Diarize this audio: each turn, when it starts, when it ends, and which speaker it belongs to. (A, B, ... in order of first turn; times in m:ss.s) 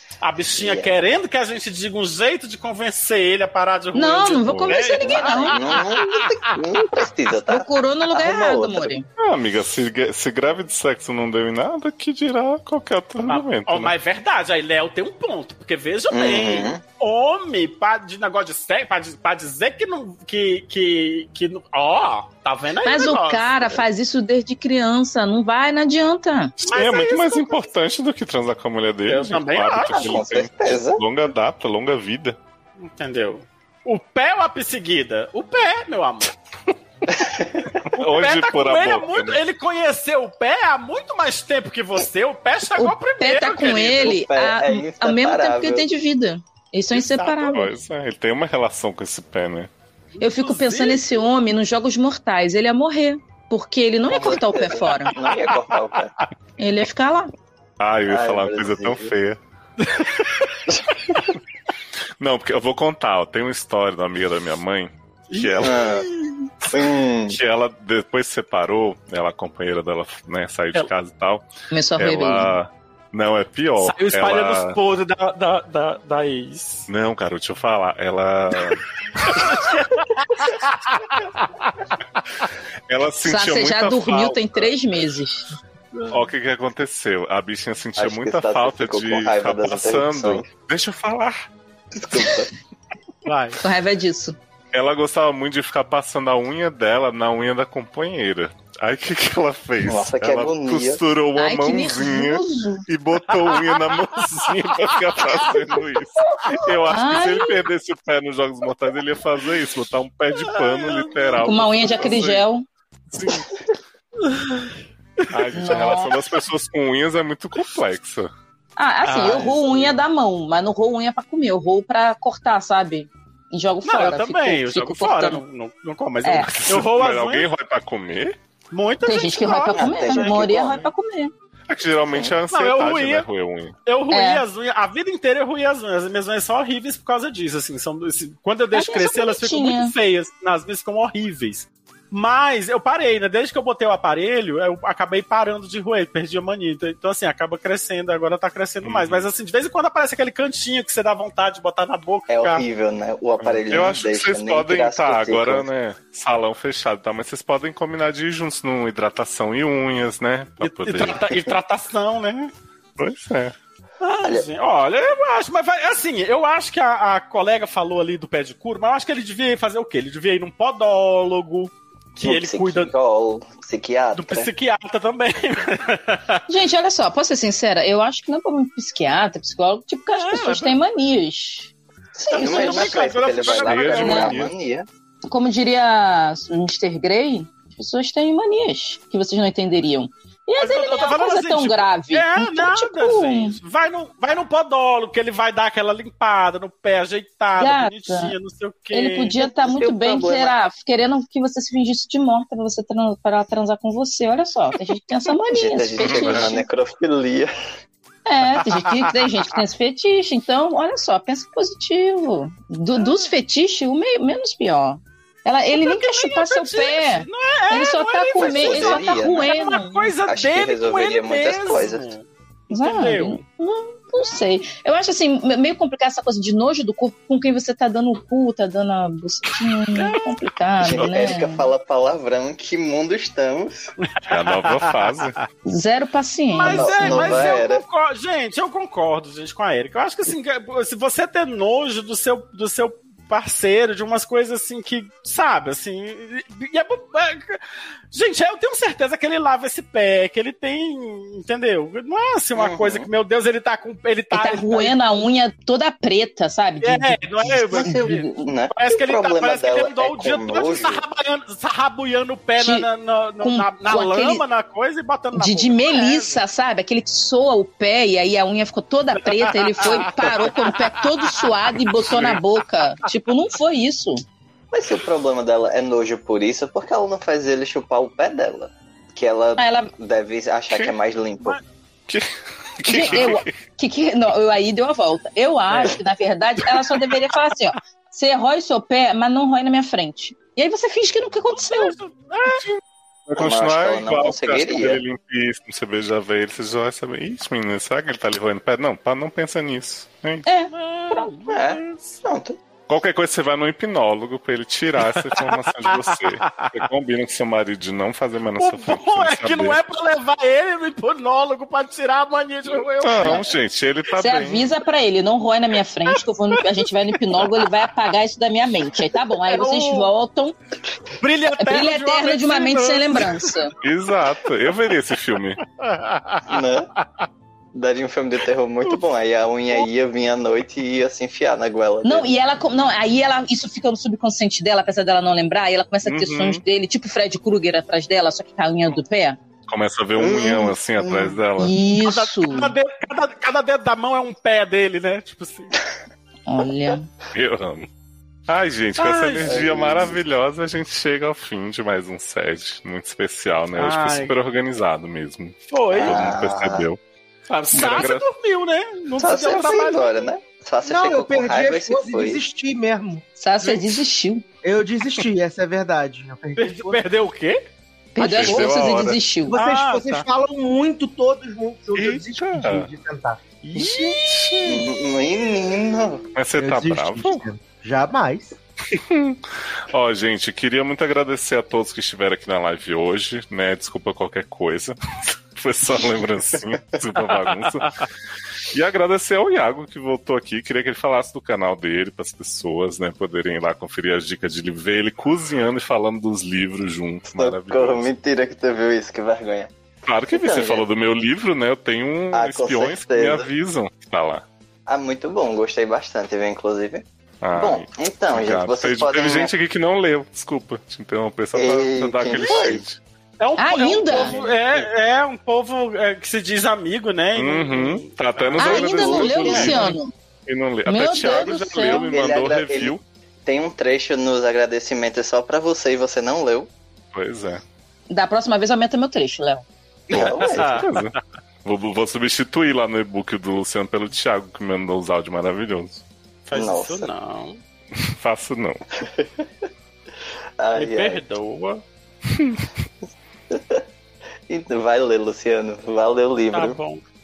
0:00.2-0:06.2 A
0:00.6-0:00.9 B
0:03.9-0:05.6 C
0:04.5-0:04.8 D
0:05.2-0:08.9 B
0:07.5-0:09.1 C
0:09.2-0:13.9 D
0:13.3-0:23.8 A
0:16.1-0:16.8 B
0:22.8-0:26.5 C
0:26.6-0:32.4 D
0:26.6-0:27.7 A
0:29.0-0:30.1 A
0:29.9-0:31.0 B
0:32.8-0:36.3 A
0:37.1-0:37.8 B
0:37.9-0:39.4 D
0:38.0-0:44.2 A
0:42.8-0:47.7 C
0:43.9-0:45.8 B
0:46.9-0:47.4 A
0:47.4-0:49.7 D
0:50.2-0:51.2 A
0:50.2-0:55.1 C
0:54.1-0:56.1 B
0:56.6-0:57.3 C
0:57.8-0:59.4 D
0:58.1-0:59.1 B
0:59.8-1:00.5 A
1:02.2-1:05.8 D
1:05.3-1:06.5 A
1:05.6-1:06.1 B
1:06.7-1:07.4 B
1:07.3-1:11.4 D
1:11.7-1:12.5 C
1:12.0-1:14.8 D
1:13.8-1:16.9 A
1:16.9-1:18.8 D
1:19.3-1:21.7 A
1:22.9-1:24.7 D
1:23.2-1:25.5 C
1:26.1-1:31.5 D
1:28.0-1:30.5 B
1:31.9-1:32.5 B
1:33.2-1:33.6 A
1:33.6-1:34.4 C
1:34.7-1:52.4 D
1:39.8-1:41.0 B
1:41.4-1:42.8 C
1:43.5-1:44.2 A
1:46.9-1:47.6 C
1:50.4-1:51.4 A
1:51.4-1:52.6 C
1:53.2-1:53.4 A
1:54.2-1:54.7 A
1:55.3-1:58.3 D
1:55.5-1:56.1 C
1:58.8-2:05.4 C
1:59.0-2:00.0 A
2:03.8-2:07.5 A
2:06.2-2:06.5 C
2:06.4-2:08.4 D
2:08.7-2:10.4 A
2:09.0-2:11.3 C
2:09.7-2:10.9 B
2:11.7-2:13.7 D
2:12.5-2:13.2 A
2:13.8-2:32.6 A
2:14.1-2:14.4 C
2:18.7-2:19.9 C
2:28.8-2:29.2 D
2:32.3-2:35.7 B
2:33.4-2:41.3 D
2:40.6-2:42.5 A
2:43.0-2:43.5 D
2:44.0-2:52.9 A
2:52.2-2:54.5 B
2:54.1-2:56.4 A
2:56.5-3:01.7 C
3:00.1-3:00.7 A
3:02.2-3:04.9 B
3:02.3-3:04.3 A
3:02.3-3:03.0 C
3:03.4-3:04.5 D
3:04.0-3:04.3 C
3:05.3-3:13.6 C
3:10.6-3:19.4 A
3:17.6-3:18.3 C
3:18.9-3:26.6 C
3:19.4-3:20.6 B
3:25.5-3:27.5 B
3:26.0-3:26.5 D
3:28.2-3:40.1 C
3:35.7-3:43.4 A
3:38.4-3:39.5 B
3:40.3-3:42.1 B
3:42.7-3:51.6 C
3:50.8-3:53.9 B
3:54.2-3:55.3 A
3:54.3-3:55.4 D
3:55.6-3:57.5 C
3:56.5-4:15.0 A
3:56.7-3:57.8 B
4:12.5-4:13.1 B
4:14.3-4:18.4 C
4:16.8-4:26.4 A
4:17.7-4:21.0 B
4:22.6-4:22.9 C
4:23.4-4:24.4 C
4:25.3-4:34.2 C
4:29.3-4:31.5 A
4:32.0-4:32.3 A
4:34.7-4:41.6 B
4:39.6-4:39.9 C
4:40.7-4:41.0 D
4:42.1-4:43.6 D
4:42.9-4:52.0 C
4:51.7-4:52.6 A
4:52.5-5:00.4 D
4:53.4-4:55.0 B
5:00.4-5:01.3 C
5:00.7-5:02.0 A
5:01.5-5:02.6 B
5:02.9-5:09.8 D
5:05.1-5:06.8 A
5:08.6-5:13.5 A
5:13.0-5:14.7 D
5:14.2-5:20.5 C
5:16.5-5:16.9 A
5:17.4-5:17.7 A
5:19.4-5:20.1 A
5:21.2-5:23.5 A
5:21.6-5:23.7 C
5:23.8-5:25.6 D
5:25.8-5:26.6 A
5:26.4-5:26.9 B
5:27.7-5:32.3 B
5:32.0-5:39.4 C
5:36.0-5:36.6 D
5:39.7-5:41.7 D
5:40.2-5:41.4 B
5:41.6-5:42.7 C
5:42.0-5:45.7 A
5:46.5-5:47.1 C
5:47.3-5:47.9 D
5:48.5-5:57.0 D
5:49.0-5:49.5 A
5:49.4-5:50.2 B
5:53.8-5:54.3 A
5:55.7-5:56.2 A
5:55.9-5:56.9 B
5:57.5-6:00.2 A
5:57.7-5:58.2 D
5:59.2-6:02.4 B
6:00.8-6:03.2 E
6:03.4-6:04.4 C
6:04.6-6:07.0 E
6:06.6-6:07.6 A
6:08.1-6:09.6 C
6:08.2-6:09.2 D
6:09.5-6:13.4 E
6:09.5-6:10.2 A
6:12.0-6:12.9 D
6:13.6-6:14.7 A
6:13.8-6:14.8 D
6:14.6-6:16.3 B
6:16.3-6:17.4 D
6:16.6-6:18.6 E
6:18.9-6:25.0 D
6:25.5-6:28.0 D
6:28.7-6:38.1 D
6:37.3-6:39.7 B
6:40.0-6:44.4 D
6:40.3-6:40.8 B
6:42.3-6:43.5 B
6:44.9-6:49.5 B
6:47.4-6:53.0 D
6:51.5-6:52.8 B
6:52.4-6:52.7 A
6:53.4-6:59.9 A
6:53.6-6:54.4 C
6:54.1-6:54.4 D
6:57.4-7:03.0 D
6:58.6-7:00.1 C
7:00.8-7:02.1 C
7:01.3-7:02.9 B
7:03.4-7:06.7 B
7:07.1-7:07.6 D
7:08.1-7:09.6 C
7:10.1-7:10.9 B
7:10.1-7:16.0 D
7:10.2-7:10.9 A
7:16.5-7:17.6 A
7:16.5-7:17.1 B
7:18.0-7:18.8 D
7:19.0-7:19.4 B
7:20.6-7:21.2 B
7:20.7-7:21.8 A
7:22.3-7:22.6 D
7:23.5-7:23.8 B
7:24.5-7:26.8 B
7:26.5-7:27.0 A